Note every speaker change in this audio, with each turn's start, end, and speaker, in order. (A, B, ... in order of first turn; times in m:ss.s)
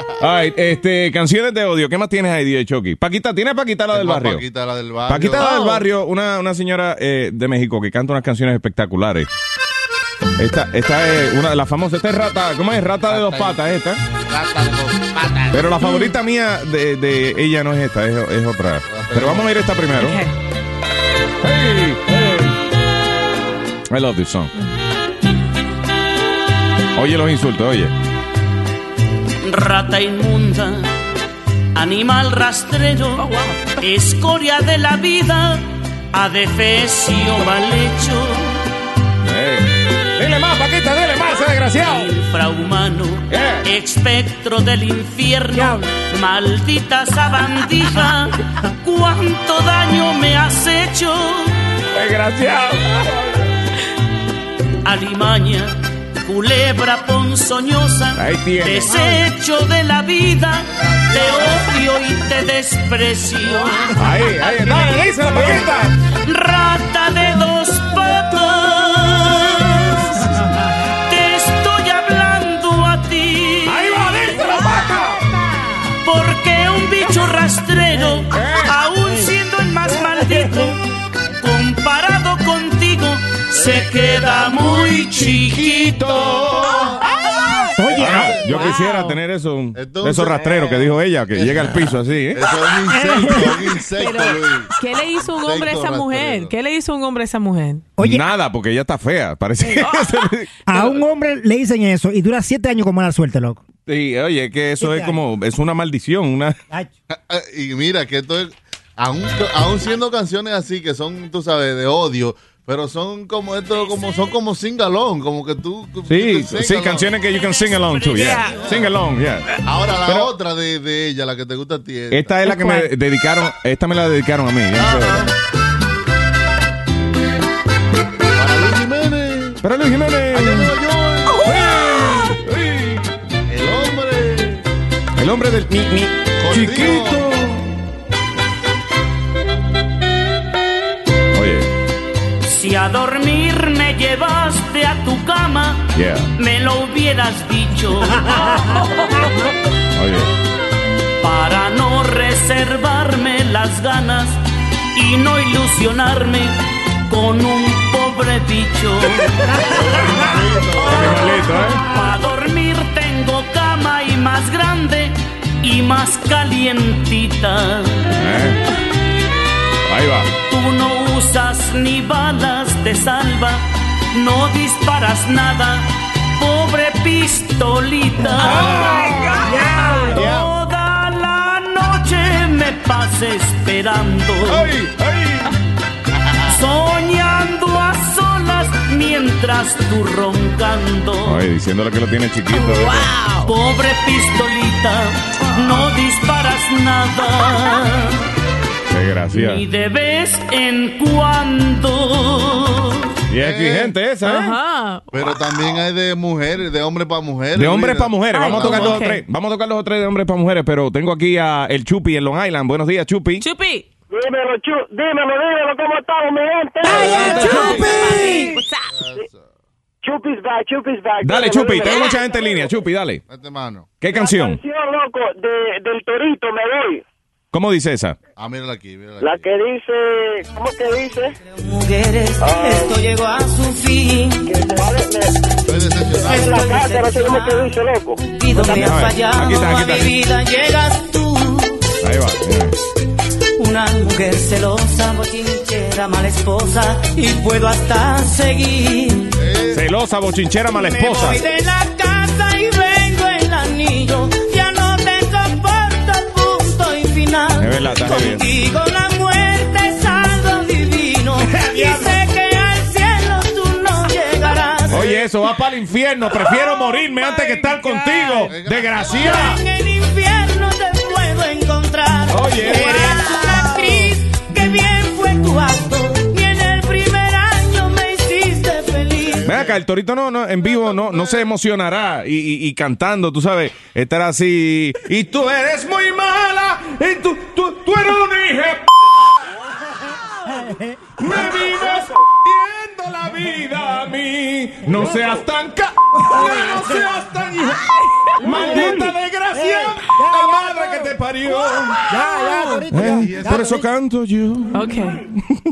0:00.2-0:04.4 A
0:03.9-0:05.6 B
0:05.1-0:09.3 A
0:10.4-0:14.0 A
0:13.1-0:13.6 B
0:14.3-0:15.7 B
0:15.5-0:20.2 A
0:15.8-0:16.1 C
0:18.9-0:19.5 B
0:20.0-0:20.3 C
0:21.4-0:22.5 A
0:23.9-0:24.5 A
0:27.0-0:27.9 A
0:29.4-0:30.9 D
0:31.8-0:33.3 D
0:33.2-0:33.8 C
0:33.8-0:38.6 D
0:39.2-0:42.1 A
0:41.8-0:51.5 D
0:43.3-0:43.7 A
0:51.9-0:53.3 A
0:54.8-1:04.0 D
0:58.2-0:59.1 A
1:01.1-1:01.5 B
1:04.0-1:06.0 A
1:06.1-1:10.3 D
1:11.1-1:13.9 D
1:13.6-1:15.2 A
1:16.0-1:20.8 D
1:18.3-1:18.8 A
1:21.4-1:26.2 D
1:23.6-1:24.4 B
1:25.0-1:26.9 A
1:26.2-1:27.1 B
1:27.8-1:28.4 E
1:27.9-1:28.8 B
1:28.0-1:32.4 A
1:28.5-1:29.2 C
1:29.8-1:36.5 B
1:32.9-1:33.6 E
1:34.0-1:37.8 C
1:38.0-1:38.3 E
1:38.0-1:40.5 A
1:39.8-1:40.3 C
1:40.7-1:43.6 E
1:43.9-1:46.6 A
1:44.8-1:45.2 E
1:47.3-1:57.3 B
1:56.1-1:59.5 A
1:58.0-1:58.6 C
1:58.1-1:58.9 B
1:59.6-2:02.5 B
2:00.0-2:00.3 A
2:02.1-2:05.3 A
2:02.5-2:02.9 C
2:08.4-2:09.6 B
2:09.6-2:10.7 A
2:10.3-2:12.2 B
2:11.5-2:13.0 A
2:13.5-2:14.6 B
2:15.2-2:17.6 A
2:16.4-2:17.3 B
2:21.3-2:21.7 A
2:22.4-2:28.8 D
2:25.9-2:26.3 A
2:29.9-2:30.3 A
2:31.2-2:34.4 D
2:35.0-2:39.3 D
2:39.7-2:41.4 B
2:40.8-2:41.8 A
2:41.8-2:48.1 D
2:48.1-2:48.6 A
2:49.9-2:50.3 A
2:50.5-2:58.9 D
2:58.4-3:00.1 C
2:58.5-2:59.4 A
2:59.4-3:00.3 E
2:59.7-3:04.7 D
3:00.1-3:00.5 A
3:04.5-3:05.5 A
3:06.5-3:11.4 D
3:11.2-3:13.2 A
3:12.5-3:13.5 C
3:13.4-3:18.2 D
3:18.9-3:19.6 A
3:19.3-3:23.0 D
3:23.3-3:24.6 A
3:23.4-3:24.0 B
3:24.2-3:25.0 C
3:25.1-3:29.1 B
3:27.6-3:33.4 A
3:28.3-3:29.2 C
3:33.4-3:33.8 C
3:34.1-3:37.1 F
3:36.9-3:39.0 C
3:36.9-3:38.0 A
3:38.1-3:38.4 E
3:38.9-3:39.4 B
3:40.0-3:42.0 F
3:41.2-3:43.2 A
3:41.8-3:42.1 C
3:43.3-3:44.0 B
3:44.0-3:44.6 A
3:44.1-3:47.0 F
3:47.5-3:48.2 A
3:48.4-3:49.5 B
3:49.2-3:51.3 F
3:51.9-3:54.1 G
3:52.4-3:53.0 F
3:54.5-3:55.3 F
3:55.7-3:56.7 B
3:56.1-3:58.2 F
3:56.3-3:57.7 G
3:58.6-4:00.1 A
3:58.6-4:01.0 G
4:02.0-4:02.8 A
4:03.7-4:09.1 G
4:09.4-4:09.8 B
4:09.7-4:11.4 A
4:11.6-4:17.7 G
4:17.6-4:18.5 A
4:18.6-4:21.3 G
4:21.4-4:22.2 A
4:22.5-4:25.0 G
4:24.9-4:29.6 A
4:26.4-4:28.5 C
4:28.5-4:29.5 B
4:30.2-4:30.6 G
4:31.3-4:32.3 G
4:32.3-4:33.2 A
4:34.7-4:38.0 G
4:38.6-4:39.2 G
4:39.2-4:39.7 B
4:39.4-4:48.8 A
4:51.2-4:57.8 A
4:58.4-5:02.1 A
4:58.6-4:59.0 E
4:59.5-5:01.1 E
5:02.1-5:03.8 E
5:02.9-5:05.6 A
5:03.0-5:03.8 B
5:04.7-5:05.2 C